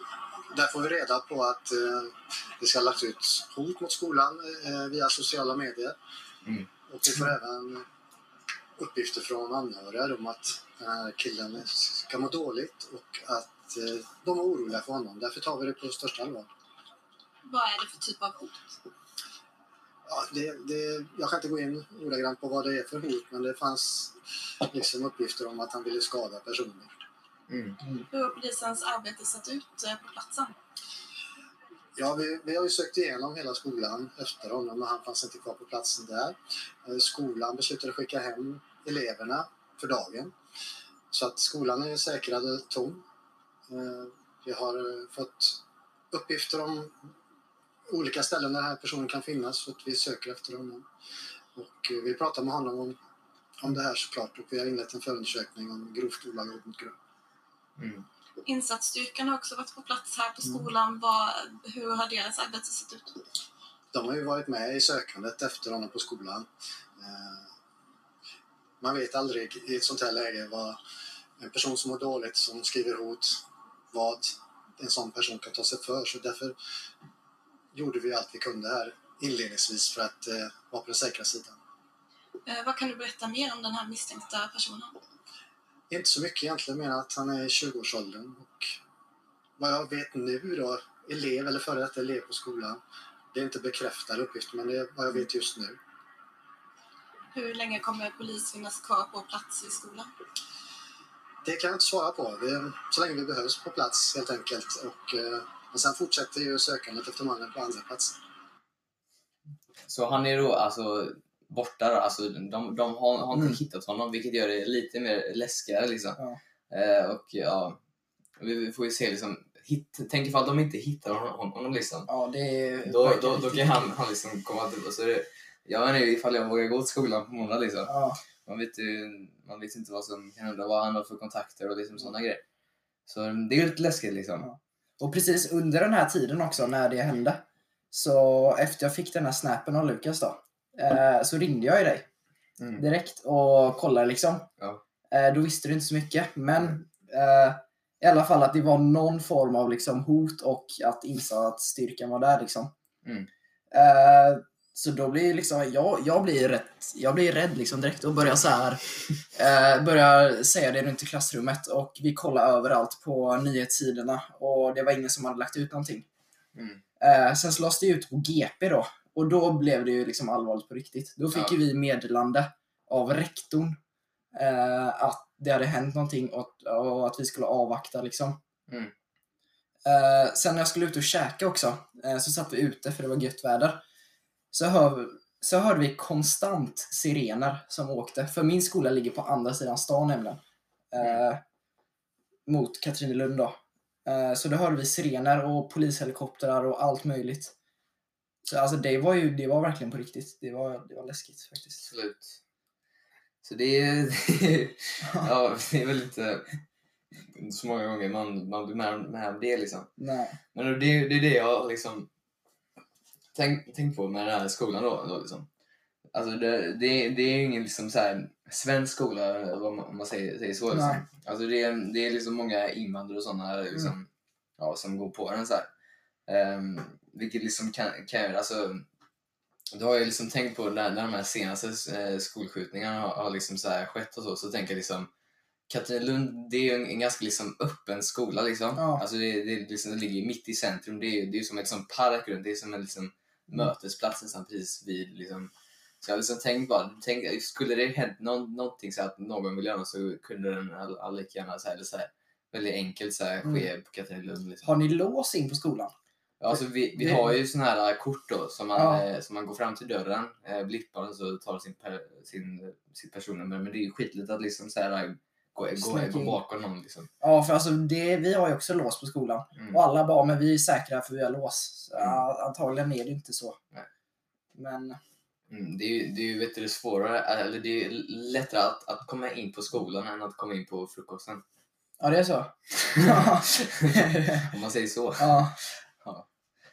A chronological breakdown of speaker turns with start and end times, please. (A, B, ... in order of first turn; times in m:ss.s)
0:00.5-0:06.0 A
0:06.9-0:07.8 A
0:08.8-0:16.5 A
0:17.4-0:18.7 B
0:20.1-0:24.1 A
0:24.6-0:27.0 A
0:27.5-0:27.8 C
0:28.1-0:30.6 B
0:32.0-0:40.3 A
0:41.1-0:43.0 A
0:43.7-0:45.6 A
0:46.1-0:47.0 A
0:47.9-0:50.8 A
0:51.6-0:53.0 A
0:53.6-0:56.9 A
0:57.8-0:58.0 C
0:58.4-1:03.2 B
1:03.9-1:06.5 A
1:07.0-1:07.5 A
1:08.8-1:10.8 A
1:11.4-1:13.4 A
1:13.9-1:16.6 A
1:17.7-1:21.6 A
1:22.4-1:25.0 B
1:25.9-1:28.8 A
1:29.6-1:32.8 A
1:33.3-1:35.8 A
1:37.3-1:40.1 B
1:41.4-1:48.1 A
1:49.8-1:56.2 C
1:53.3-1:53.6 D
1:56.7-1:57.8 C
1:58.4-2:02.1 C
2:02.1-2:03.9 D
2:02.8-2:07.9 C
2:07.9-2:08.2 D
2:08.4-2:12.4 C
2:13.1-2:14.5 C
2:14.4-2:22.0 D
2:22.6-2:22.8 C
2:22.8-2:24.5 D
2:25.1-2:32.7 D
2:33.0-2:33.3 C
2:33.7-2:38.8 D
2:39.3-2:46.0 D
2:46.5-2:46.8 C
2:47.0-2:53.8 D
2:54.3-2:58.4 D
2:58.7-2:58.9 C
2:59.8-3:03.8 D
3:04.5-3:10.4 D
3:10.9-3:11.4 D
3:12.5-3:17.5 D
3:18.4-3:21.8 D
3:21.8-3:22.4 C
3:23.4-3:26.6 C
3:27.2-3:29.9 C
3:30.0-3:30.4 D
3:30.5-3:32.1 C
3:33.3-3:35.5 C
3:36.1-3:45.7 C
3:40.7-3:41.0 D
3:46.3-3:48.8 C
3:49.7-3:55.1 C
3:55.7-4:14.7 C
3:58.8-3:59.0 D
4:14.6-4:15.9 D
4:16.4-4:27.1 C
4:16.5-4:17.4 D
4:18.7-4:19.0 D
4:25.8-4:26.4 D
4:27.2-4:33.6 D
4:29.6-4:29.8 C
4:34.5-4:35.0 D
4:35.5-4:41.4 C
4:42.0-4:44.5 D
4:42.9-4:46.2 C
4:45.2-4:45.5 D